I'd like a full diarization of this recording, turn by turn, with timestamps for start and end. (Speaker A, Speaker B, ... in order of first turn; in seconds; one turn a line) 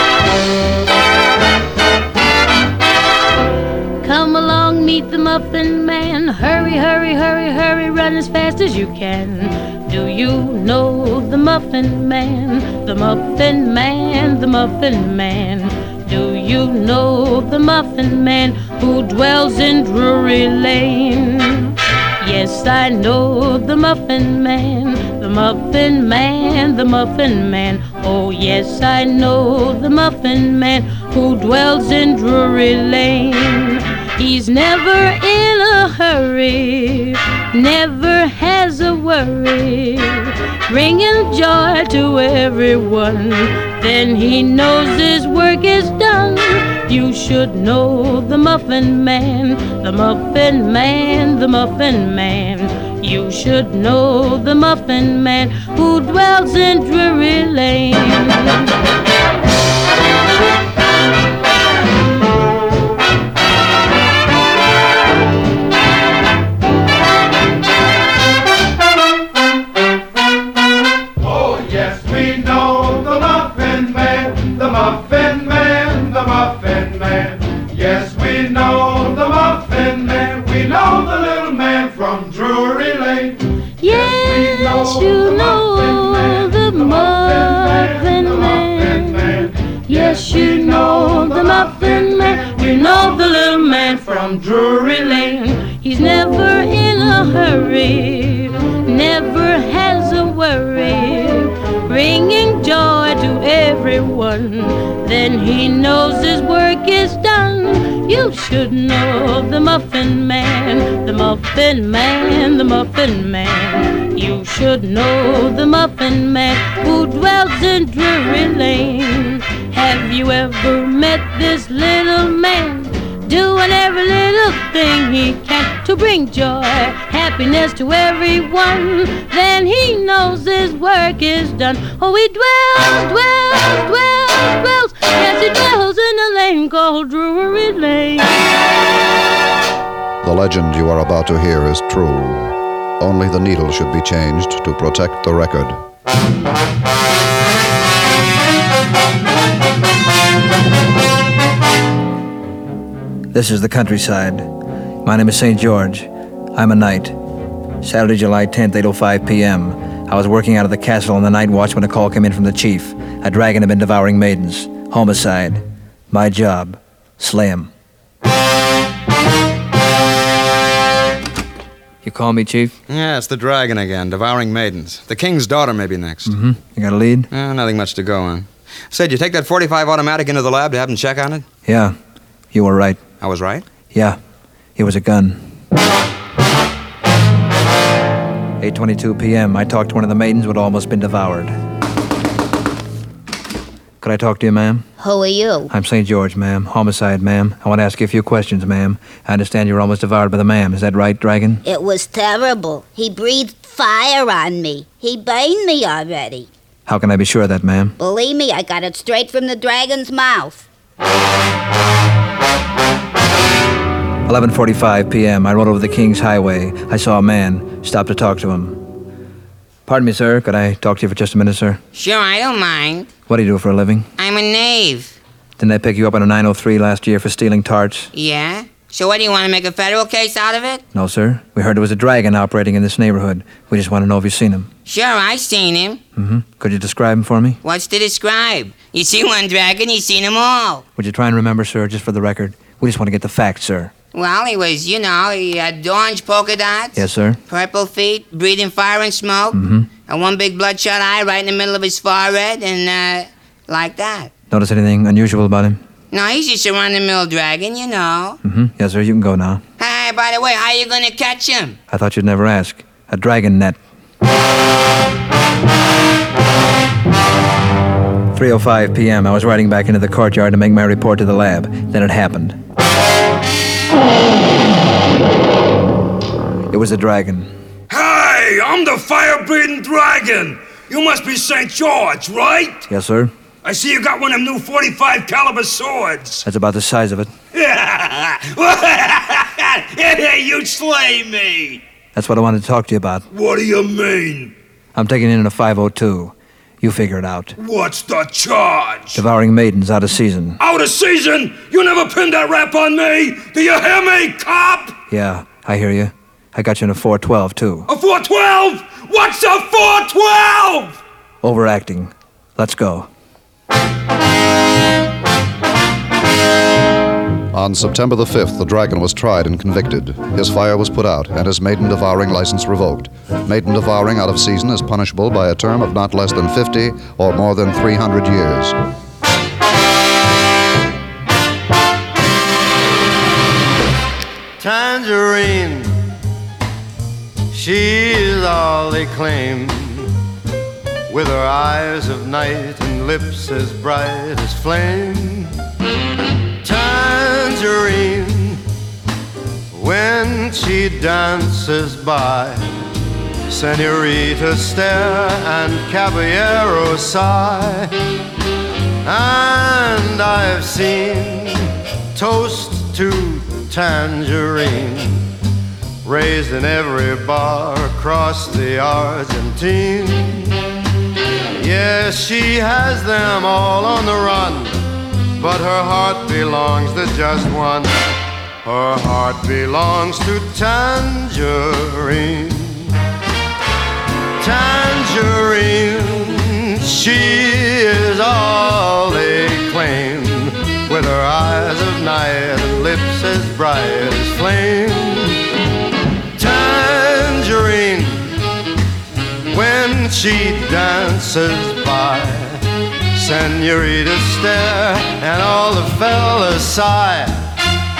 Speaker A: 4.0-58.5
Speaker A: 83.8-138.4
Speaker B: 140.2-145.8
Speaker C: 153.3-154.5
Speaker C: 155.1-157.2
Speaker C: 157.8-167.7
Speaker C: 172.0-172.7
Speaker D: 172.9-176.3
Speaker C: 176.3-177.3
Speaker D: 177.3-181.5
Speaker C: 181.7-181.9
Speaker C: 182.5-183.1
Speaker D: 183.2-183.7
Speaker C: 183.9-184.2
Speaker C: 184.8-185.4
Speaker C: 188.6-191.5
Speaker C: 194.0-194.9
Speaker E: 195.0-195.7
Speaker C: 195.7-201.6
Speaker E: 201.6-206.5
Speaker C: 206.9-207.9
Speaker E: 208.0-210.7
Speaker C: 214.3-218.8
Speaker C: 219.9-221.8
Speaker F: 221.9-223.1
Speaker C: 223.3-224.1
Speaker F: 224.2-225.1
Speaker C: 225.6-228.1
Speaker F: 228.1-230.8
Speaker C: 230.9-234.7
Speaker F: 234.9-236.0
Speaker C: 236.2-237.6
Speaker F: 237.6-240.8
Speaker C: 241.0-243.9
Speaker F: 244.1-254.3
Speaker C: 246.9-247.4
Speaker C: 249.5-249.9
Speaker C: 254.5-255.8
Speaker F: 256.1-258.4
Speaker C: 258.4-259.6
Speaker F: 259.8-261.8
Speaker C: 261.9-263.8
Speaker C: 268.3-272.6
Speaker C: 276.7-277.5
Speaker G: 277.9-282.8
Speaker C: 282.9-283.3
Speaker G: 283.6-286.4
Speaker C: 286.4-287.3
Speaker G: 287.5-291.8
Speaker C: 292.1-293.2
Speaker G: 293.3-294.5
Speaker C: 294.9-297.5
Speaker G: 297.6-299.2
Speaker C: 299.1-300.6
Speaker G: 300.6-305.0
Speaker C: 305.1-307.9
Speaker G: 307.9-310.9
Speaker C: 311.4-313.1
Speaker B: 317.5-328.8
Speaker H: 334.6-336.0
Speaker H: 337.5-340.1
Speaker H: 341.1-345.5
Speaker H: 346.6-348.6
Speaker H: 349.7-352.6
Speaker H: 353.5-357.9
Speaker H: 359.1-365.2
Speaker H: 366.1-370.5
Speaker H: 371.6-374.8
Speaker H: 375.4-378.0
Speaker H: 378.6-382.9
Speaker H: 384.4-395.4
Speaker H: 396.4-398.3
Speaker H: 399.5-402.6
Speaker H: 403.1-407.4